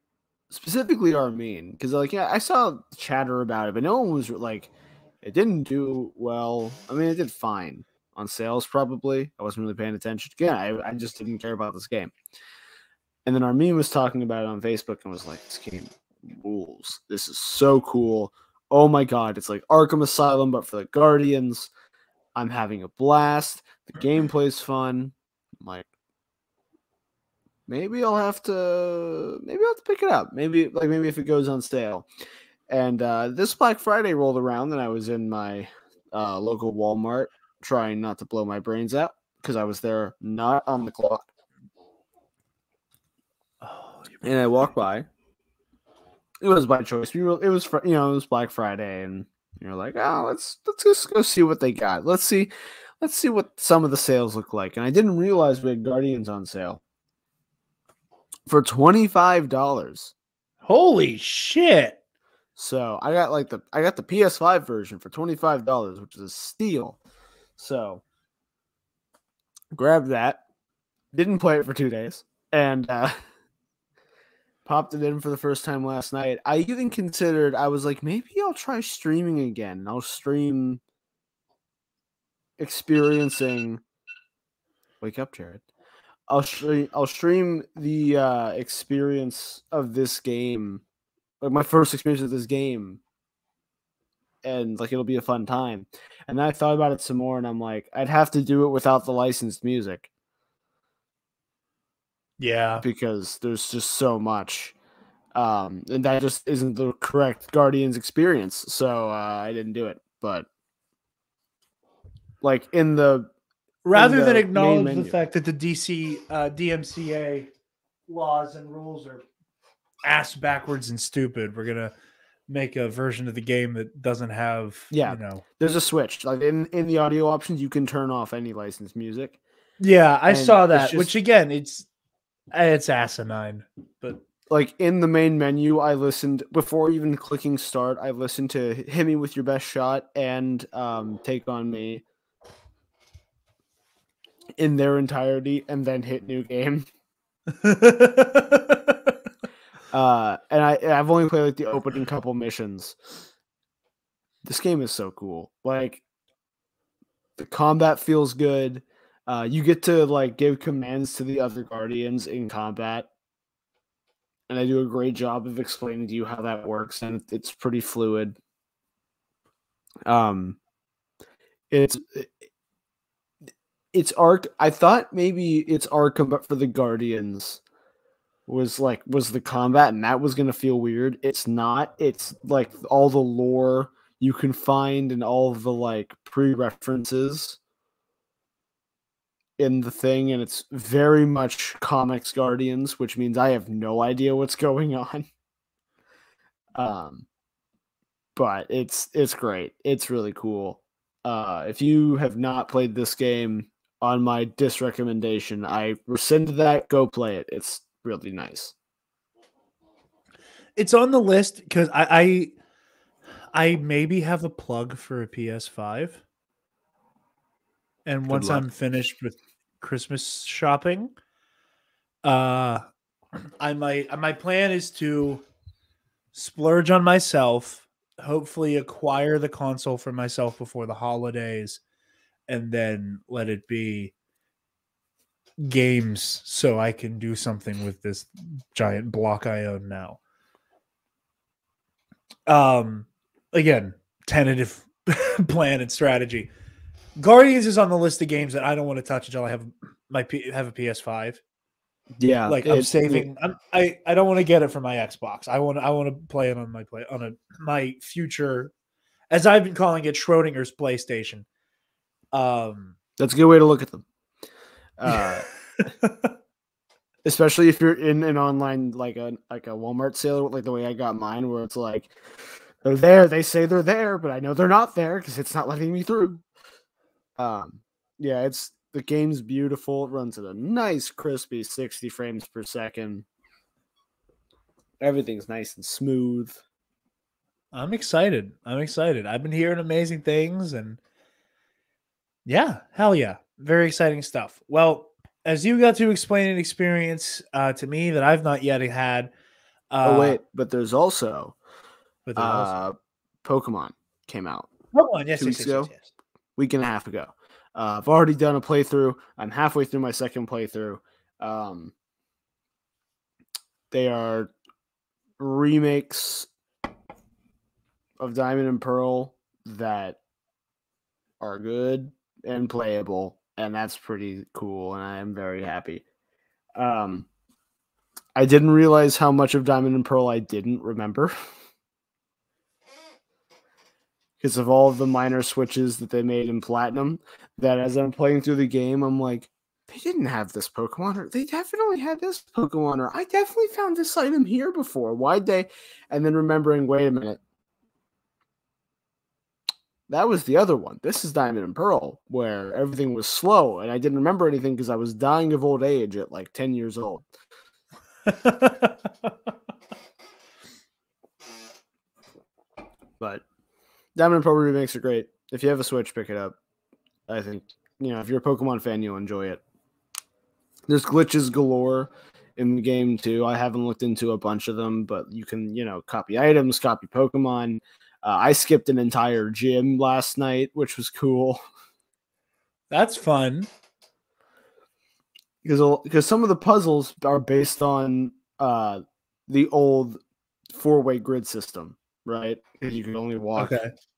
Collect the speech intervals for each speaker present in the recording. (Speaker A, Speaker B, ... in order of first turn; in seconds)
Speaker A: 0.5-4.7, 5.2-12.1, 13.2-21.7, 22.3-25.9, 27.7-32.1, 32.7-41.2, 44.2-45.0, 46.4-56.8, 58.5-60.1, 62.5-67.0, 67.6-68.0, 69.7-70.4, 71.1-73.2, 74.6-80.8, 82.6-83.8, 85.0-85.6, 86.3-90.8, 91.4-93.0, 94.4-100.1, 102.8-104.7, 105.3-110.5, 112.4-113.3, 113.9-115.1, 124.9-129.4, 130.3-131.1, 134.5-142.0, 144.6-146.9, 149.9-152.9, 154.4-156.0, 157.4-163.1, 164.5-168.4, 170.1-170.6, 171.7-172.3, 173.9-177.6, 178.5-187.6, 189.6-195.3, 196.7-197.2, 198.3-208.7, 218.3-218.7, 252.2-253.3, 263.2-264.0, 265.0-265.4, 267.2-272.1, 272.8-276.4, 277.4-283.2, 285.0-286.6, 300.0-301.6, 302.4-304.7, 305.4-305.9, 306.6-311.9, 313.9-314.5, 315.4-316.5, 318.2-320.2, 321.4-326.0, 326.8-327.3, 328.3-331.3, 334.4-347.4, 350.1-357.2, 363.2-363.4, 364.1-366.6, 367.3-369.6, 370.9-381.6, 385.6-390.2, 390.7-393.7
Speaker B: 43.6-44.6, 60.6-62.0, 102.4-102.8, 113.8-117.5, 118.1-119.2, 120.0-121.9, 122.5-125.4, 129.8-131.9, 132.5-134.2, 147.6-149.1, 210.8-212.5, 213.5-216.2, 218.1-221.1, 222.2-222.9, 223.6-225.4, 226.3-231.8, 232.5-234.1, 235.6-240.2, 242.5-246.5, 247.2-251.4, 252.5-258.7, 259.3-261.4, 262.3-262.9, 265.8-266.3, 287.7-291.0, 292.4-299.3, 299.9-300.4, 302.2-302.8, 304.9-306.1, 358.3-359.3, 382.9-383.7, 393.6-393.9